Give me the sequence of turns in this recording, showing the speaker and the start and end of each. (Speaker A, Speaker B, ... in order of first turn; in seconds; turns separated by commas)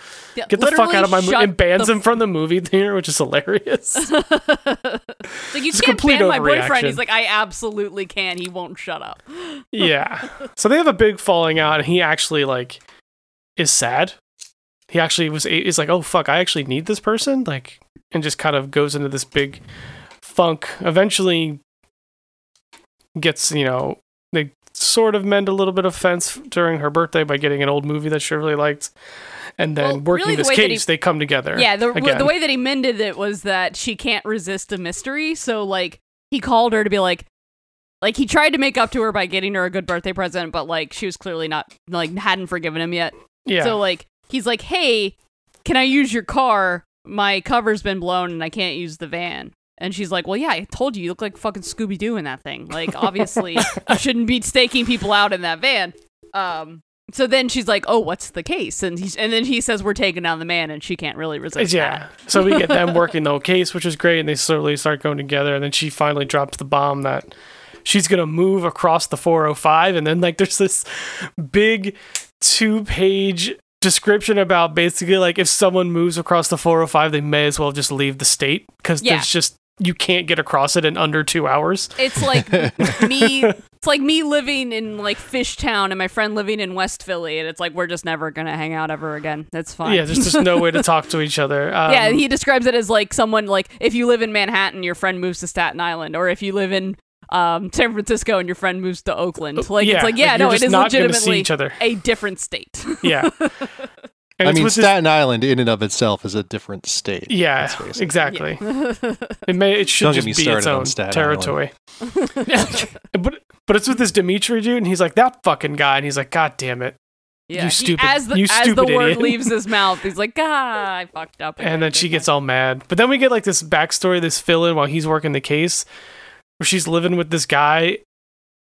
Speaker A: 0.3-2.0, Speaker B: 0.5-4.1, Speaker A: 4.0-9.7, Speaker B: 5.7-7.0, Speaker B: 9.7-12.8, Speaker B: 13.6-14.2, Speaker B: 14.9-19.6, Speaker B: 20.2-21.6, Speaker B: 23.1-28.9, Speaker B: 29.6-32.3, Speaker A: 29.8-30.9, Speaker A: 31.5-37.2, Speaker A: 38.0-63.0, Speaker B: 43.4-43.8, Speaker B: 53.6-53.9, Speaker B: 61.5-67.3, Speaker B: 67.8-83.5, Speaker A: 79.0-79.3, Speaker A: 82.0-90.8, Speaker B: 89.8-92.2, Speaker A: 91.8-103.9, Speaker B: 99.6-101.8, Speaker B: 103.0-103.3, Speaker B: 104.4-104.9, Speaker C: 104.4-108.1, Speaker B: 107.3-108.6, Speaker A: 108.3-109.4, Speaker B: 109.5-111.7, Speaker C: 110.0-111.6, Speaker A: 112.0-113.0, Speaker B: 112.5-117.0, Speaker A: 117.5-122.3, Speaker B: 117.5-119.5, Speaker B: 121.6-125.8, Speaker B: 126.6-128.0